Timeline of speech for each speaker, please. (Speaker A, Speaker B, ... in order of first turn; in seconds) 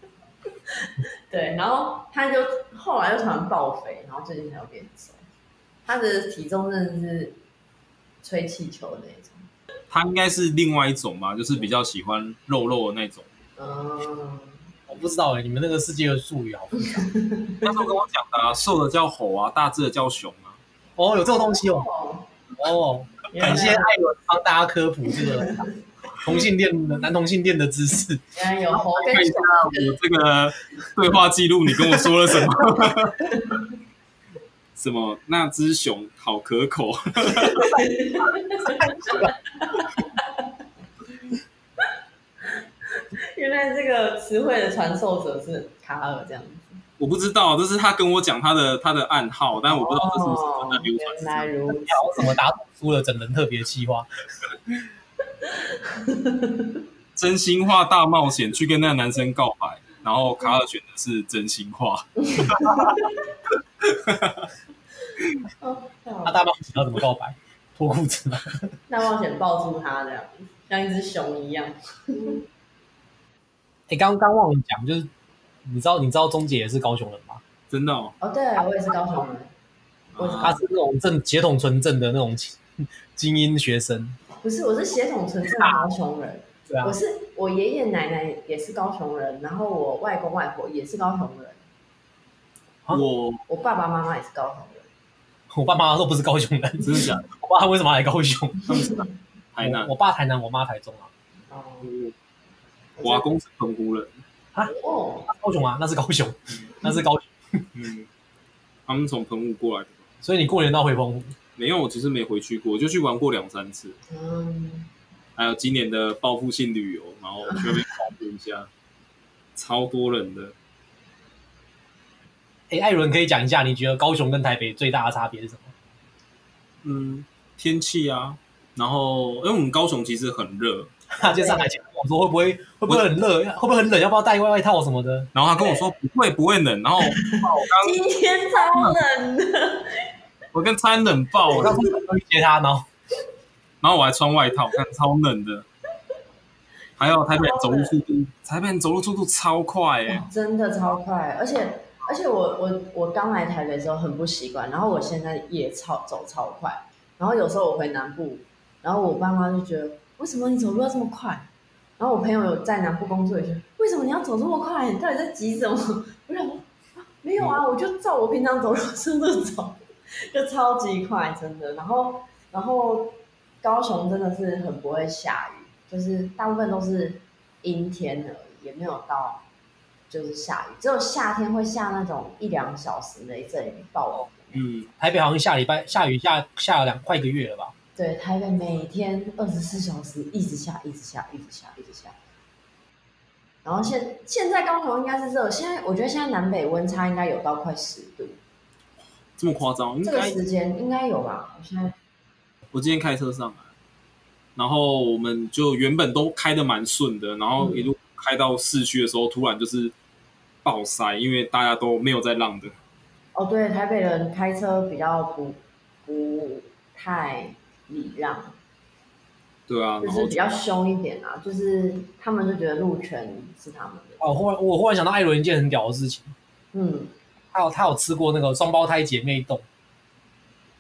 Speaker A: 1.3-5.2, 5.9-7.4, 8.2-9.5, 13.6-14.6, 16.9-17.7, 21.4-22.3, 23.3-23.9, 25.2-25.6, 28.3-30.0, 33.3-33.7, 37.5-40.4, 43.0-46.8, 49.7-52.3, 55.4-56.8, 62.2-63.2, 65.6-66.4, 68.9-72.4, 78.2-79.5, 80.2-80.6, 84.4-91.6, 93.5-94.9, 101.5-101.9, 103.0-103.3, 104.6-105.3, 114.1-114.9, 131.2-131.8, 137.1-140.1, 147.0-148.0, 150.1-161.5, 162.0-166.7, 167.2-179.4, 180.1-184.6, 187.9-192.2, 193.6-198.4, 200.0-201.9, 207.6-207.9, 213.3-218.6, 220.0-224.2, 226.7-227.1
Speaker B: 9.9-13.3, 17.6-20.6, 28.9-33.3, 34.8-37.8, 47.0-51.5, 57.2-62.9, 63.9-64.5, 77.7-78.2, 80.1-80.6, 92.9-93.4, 96.8-97.3, 98.7-99.9, 101.8-102.1, 103.0-104.2, 107.7-108.1, 108.9-110.0, 111.5-114.0, 115.4-118.7, 119.5-120.5, 126.8-130.9, 135.3-138.0, 138.6-139.0, 140.5-141.8, 143.8-145.7, 147.0-150.2, 184.5-184.9, 199.4-200.4, 202.7-203.7, 204.6-209.9, 210.6-212.8, 219.7-220.5
Speaker C: 14.9-17.1, 21.0-21.9, 22.6-25.7, 26.2-28.2, 38.7-39.3, 51.7-54.1, 66.2-68.7, 73.9-75.1, 75.6-77.4, 80.4-82.6, 83.1-84.2, 85.5-85.8, 86.7-87.0, 95.5-98.7, 99.6-101.1, 105.3-107.7, 110.2-111.3, 122.7-125.7, 131.1-135.3, 141.5-142.9, 185.0-187.7, 224.2-226.3, 227.5-229.6